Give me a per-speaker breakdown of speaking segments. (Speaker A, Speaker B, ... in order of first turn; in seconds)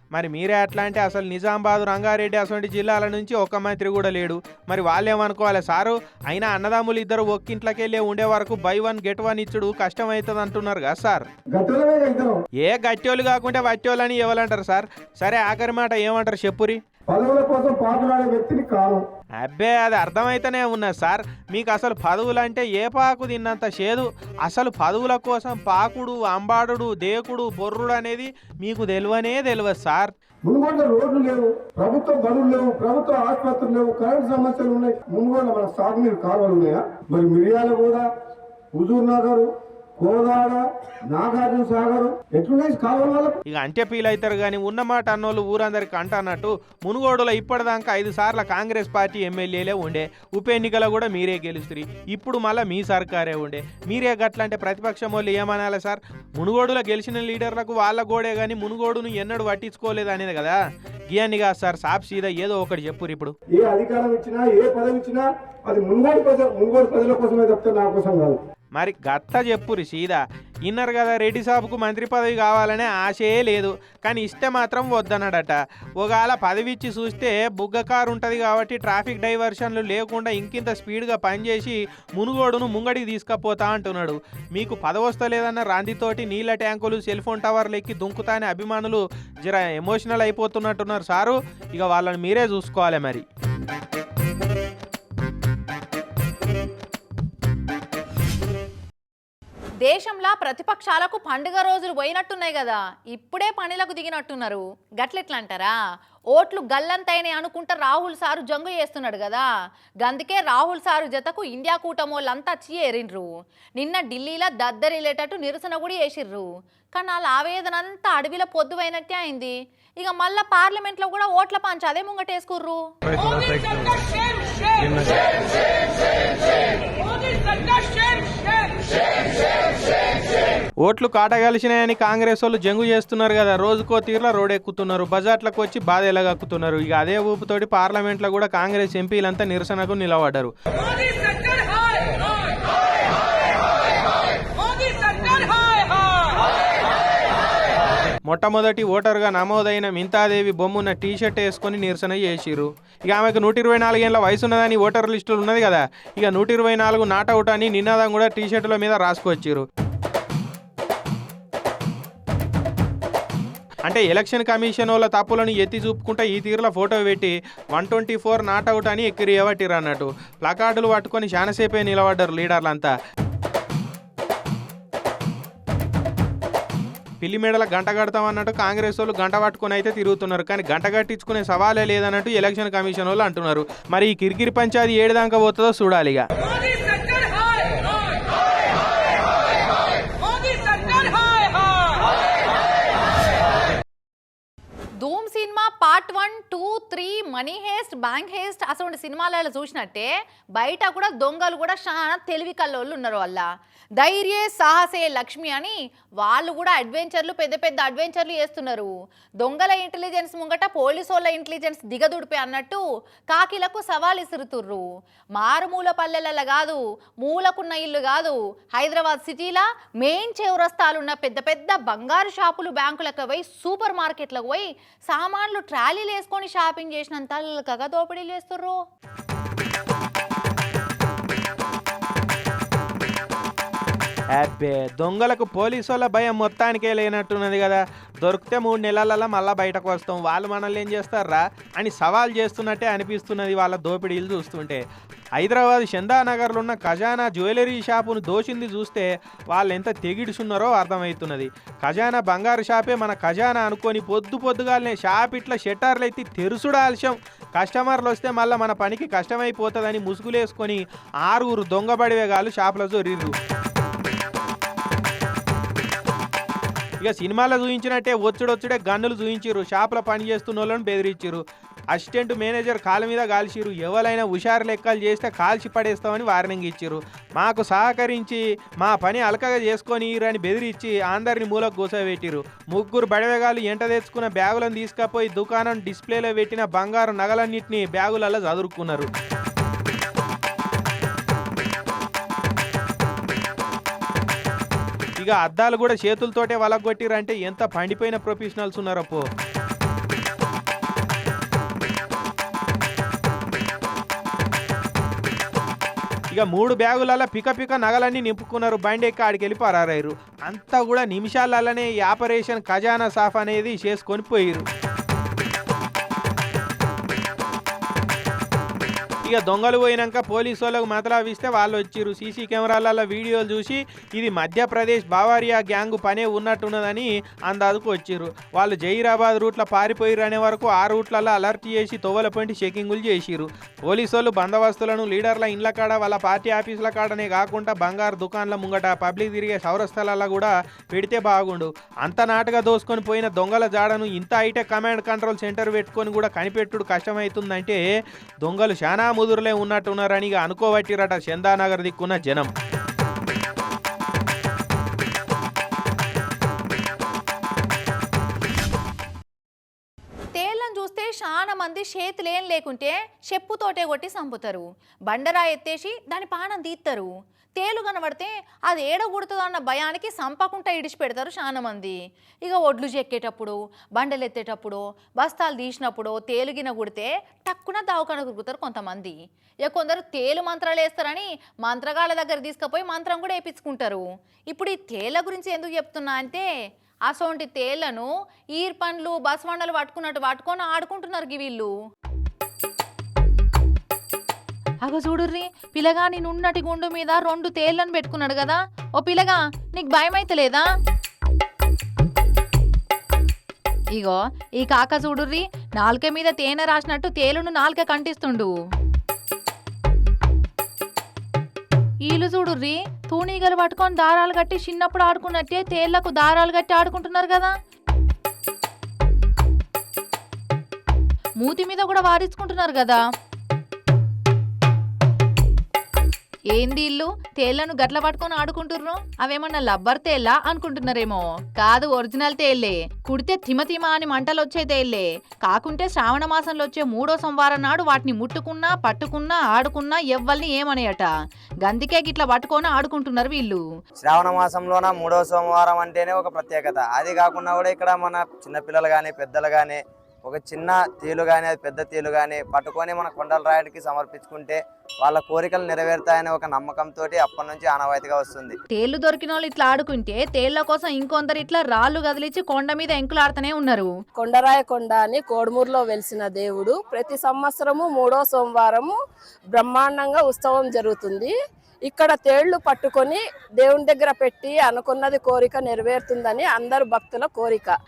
Speaker A: 0.1-11.2, 12.6-16.8, 19.4-30.1, 43.5-60.6, 61.1-63.3, 68.8-93.2, 130.8-140.5, 148.3-159.6, 163.9-172.9, 177.2-186.2, 234.4-244.8, 245.4-263.3, 267.0-289.1, 295.2-299.2, 306.3-314.6, 319.2-347.8, 348.4-352.5
Speaker B: 11.5-12.3, 17.1-19.0, 30.4-38.1, 38.8-43.4, 63.5-68.4
Speaker C: 99.8-105.8, 106.3-109.5, 110.0-122.8, 195.0-214.8, 215.4-228.8, 360.3-386.5, 387.1-391.7, 394.8-400.7, 403.9-408.5, 412.0-417.5, 421.4-423.0, 426.5-441.1, 441.6-443.6, 458.7-463.9
Speaker D: 444.0-458.6
Speaker E: 464.2-469.0, 469.5-471.3, 471.9-477.7